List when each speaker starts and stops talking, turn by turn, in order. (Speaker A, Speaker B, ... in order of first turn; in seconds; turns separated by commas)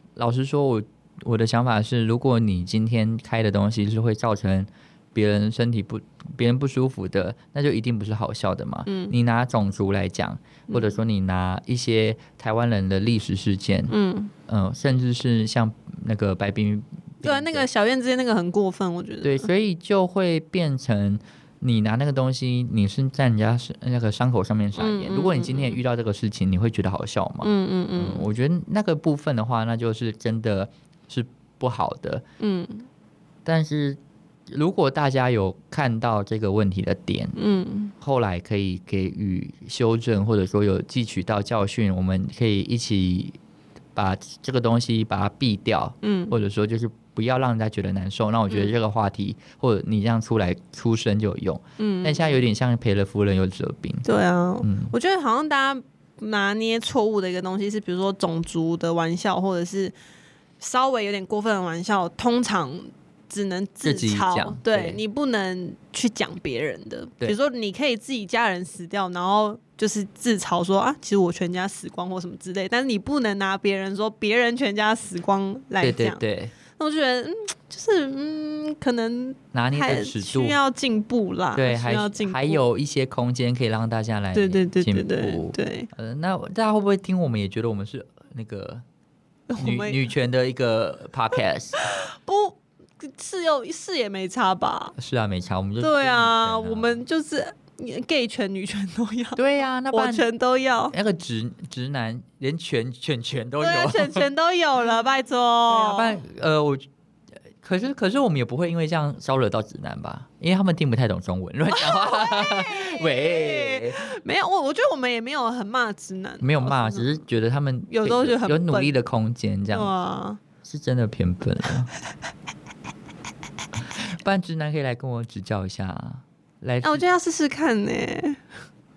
Speaker A: 0.2-13.9, Speaker B: 8.9-9.1, Speaker B: 10.7-11.0, Speaker B: 13.9-14.3, Speaker A: 14.5-17.7, Speaker B: 17.2-19.5, Speaker A: 19.2-32.2, Speaker B: 24.8-25.8, Speaker B: 27.4-28.3, Speaker B: 32.4-32.9, Speaker A: 33.5-37.4, Speaker B: 37.4-37.9, Speaker A: 38.0-43.4, Speaker A: 44.0-54.0, Speaker B: 46.0-46.4, Speaker B: 51.8-52.4, Speaker B: 54.0-60.0, Speaker A: 54.6-54.9, Speaker B: 60.6-76.2, Speaker A: 63.8-65.0, Speaker A: 75.8-76.5, Speaker B: 76.8-82.6, Speaker A: 79.5-80.6, Speaker A: 81.5-88.8, Speaker B: 84.3-85.9, Speaker B: 89.5-90.0, Speaker A: 89.6-91.8, Speaker B: 91.8-95.0, Speaker A: 95.0-97.0, Speaker B: 95.8-99.4, Speaker A: 99.4-100.3, Speaker B: 99.9-101.0, Speaker A: 100.9-104.3, Speaker B: 103.6-106.2, Speaker A: 105.7-106.9, Speaker A: 107.6-114.2, Speaker B: 111.7-117.1, Speaker A: 116.4-119.9, Speaker B: 117.9-118.9, Speaker B: 119.7-120.4, Speaker A: 120.6-121.9, Speaker A: 123.8-127.0, Speaker B: 126.8-128.4